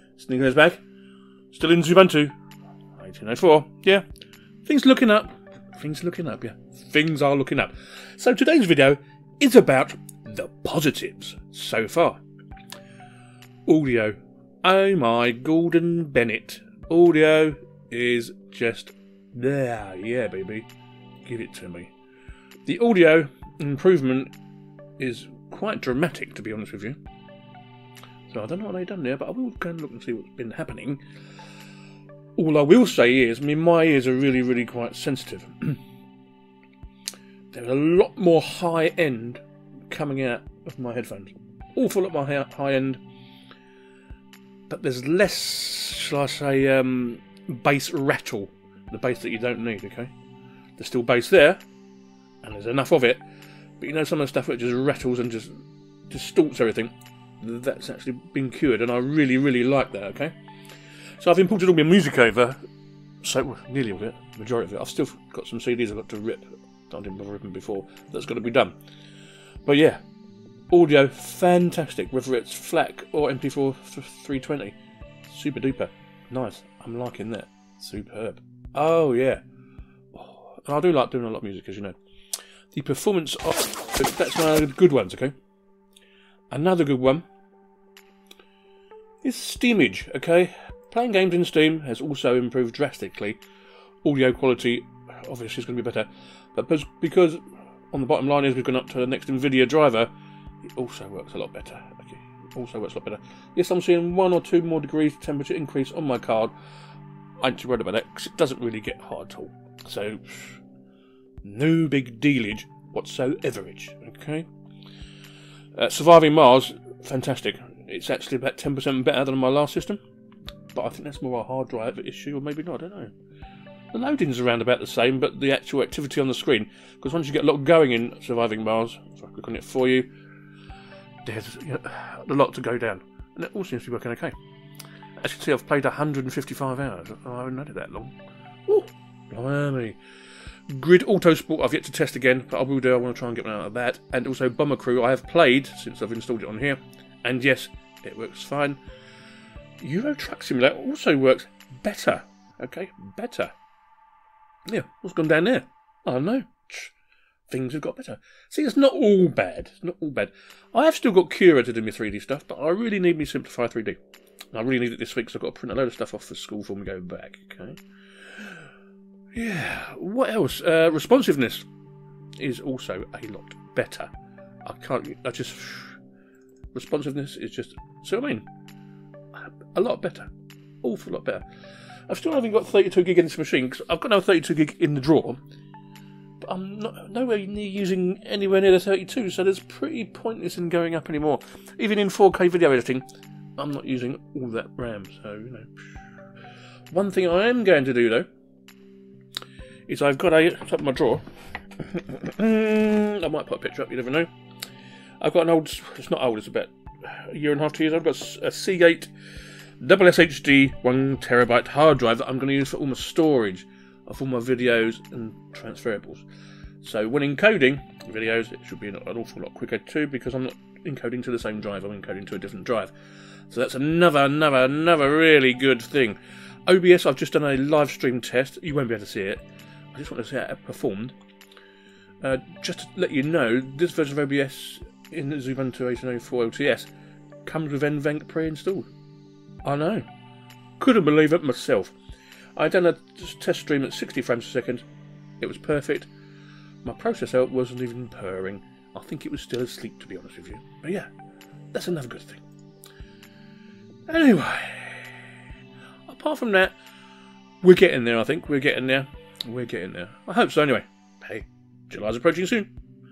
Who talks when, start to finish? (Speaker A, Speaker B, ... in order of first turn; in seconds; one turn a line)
Speaker A: 0.1-0.8
Speaker A: 1.5-2.3
Speaker A: 2.9-4.0
Speaker A: 4.6-12.2
Speaker A: 13.7-20.7
Speaker A: 21.2-21.9
Speaker A: 22.6-24.3
Speaker A: 25.0-27.0
Speaker A: 28.3-31.0
Speaker A: 32.4-35.8
Speaker A: 37.5-43.0
Speaker A: 44.7-50.1
Speaker A: 50.8-51.6
Speaker A: 52.4-53.2
Speaker A: 53.8-60.4
Speaker A: 61.2-62.6
Speaker A: 63.2-68.8
Speaker A: 69.6-70.0
Speaker A: 70.7-79.4
Speaker A: 80.1-82.0
Speaker A: 82.7-85.3
Speaker A: 86.5-87.3
Speaker A: 89.2-93.4
Speaker A: 94.0-100.1
Speaker A: 100.6-106.5
Speaker A: 107.4-110.6
Speaker A: 111.4-114.5
Speaker A: 115.7-120.0
Speaker A: 120.7-123.1
Speaker A: 123.9-130.1
Speaker A: 131.2-134.3
Speaker A: 135.2-140.0
Speaker A: 140.7-148.8
Speaker A: 149.8-153.5
Speaker A: 154.7-156.9
Speaker A: 157.5-164.0
Speaker A: 164.5-167.8
Speaker A: 169.3-171.7
Speaker A: 172.4-174.1
Speaker A: 174.6-176.0
Speaker A: 176.7-178.5
Speaker A: 179.3-180.3
Speaker A: 180.8-181.4
Speaker A: 182.1-185.4
Speaker A: 186.4-193.0
Speaker A: 193.6-195.9
Speaker A: 196.9-198.3
Speaker A: 199.9-201.2
Speaker A: 201.8-204.3
Speaker A: 205.2-209.1
Speaker A: 209.8-216.2
Speaker A: 216.8-222.9
Speaker A: 223.5-231.1
Speaker A: 232.2-236.9
Speaker A: 237.4-238.9
Speaker A: 239.6-240.1
Speaker A: 240.8-241.9
Speaker A: 242.6-244.8
Speaker A: 245.4-246.1
Speaker A: 246.8-251.1
Speaker A: 251.7-252.4
Speaker A: 254.1-255.1
Speaker A: 256.1-256.8
Speaker A: 257.6-262.7